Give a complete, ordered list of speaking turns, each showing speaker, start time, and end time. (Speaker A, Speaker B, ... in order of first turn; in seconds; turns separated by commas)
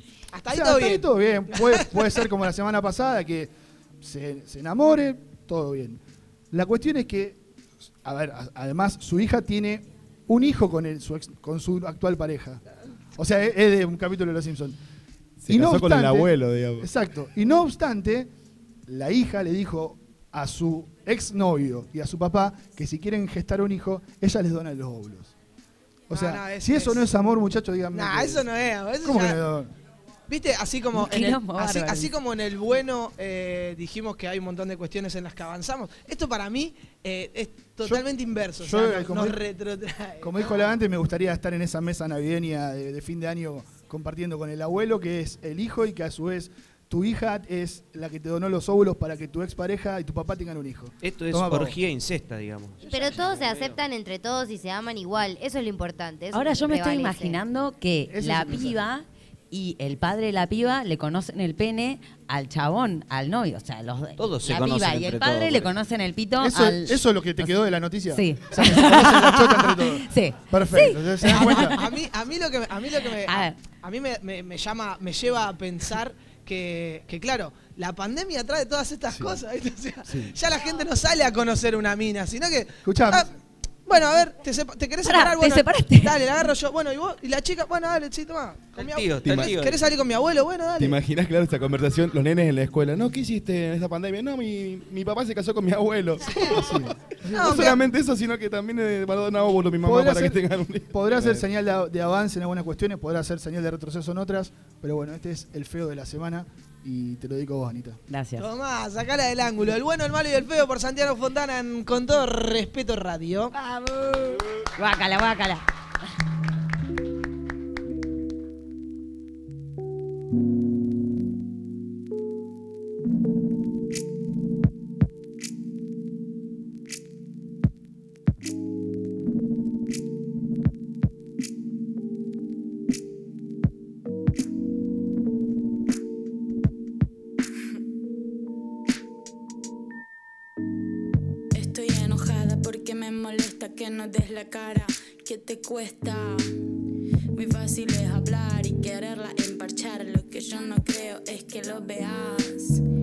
Speaker A: 0.3-2.2, Speaker B: 0.5-6.0, Speaker B: 6.5-7.4, Speaker B: 8.0-12.6, Speaker B: 13.2-14.8, Speaker C: 15.4-16.9, Speaker B: 15.5-18.3, Speaker B: 18.9-25.3, Speaker B: 26.1-28.4, Speaker A: 26.1-27.1, Speaker A: 27.9-29.4, Speaker B: 29.0-29.7, Speaker A: 30.3-40.7, Speaker D: 30.9-32.1, Speaker B: 38.6-39.4, Speaker B: 40.2-51.8, Speaker E: 51.0-53.8, Speaker F: 52.9-57.4, Speaker D: 56.3-67.5, Speaker B: 58.1-58.8, Speaker E: 64.2-65.8, Speaker B: 66.4-71.7, Speaker D: 68.1-71.9, Speaker A: 71.3-83.3, Speaker D: 73.3-73.6, Speaker B: 82.8-83.3, Speaker A: 83.9-91.0, Speaker D: 85.0-86.2, Speaker E: 88.8-89.8, Speaker C: 89.2-89.5, Speaker C: 90.8-101.4, Speaker A: 96.3-96.8, Speaker B: 96.6-97.7, Speaker A: 97.3-97.7, Speaker B: 99.8-108.0, Speaker D: 108.1-108.5, Speaker A: 108.4-113.6, Speaker D: 113.6-114.2, Speaker D: 114.8-115.7, Speaker G: 141.5-146.5, Speaker G: 147.3-152.8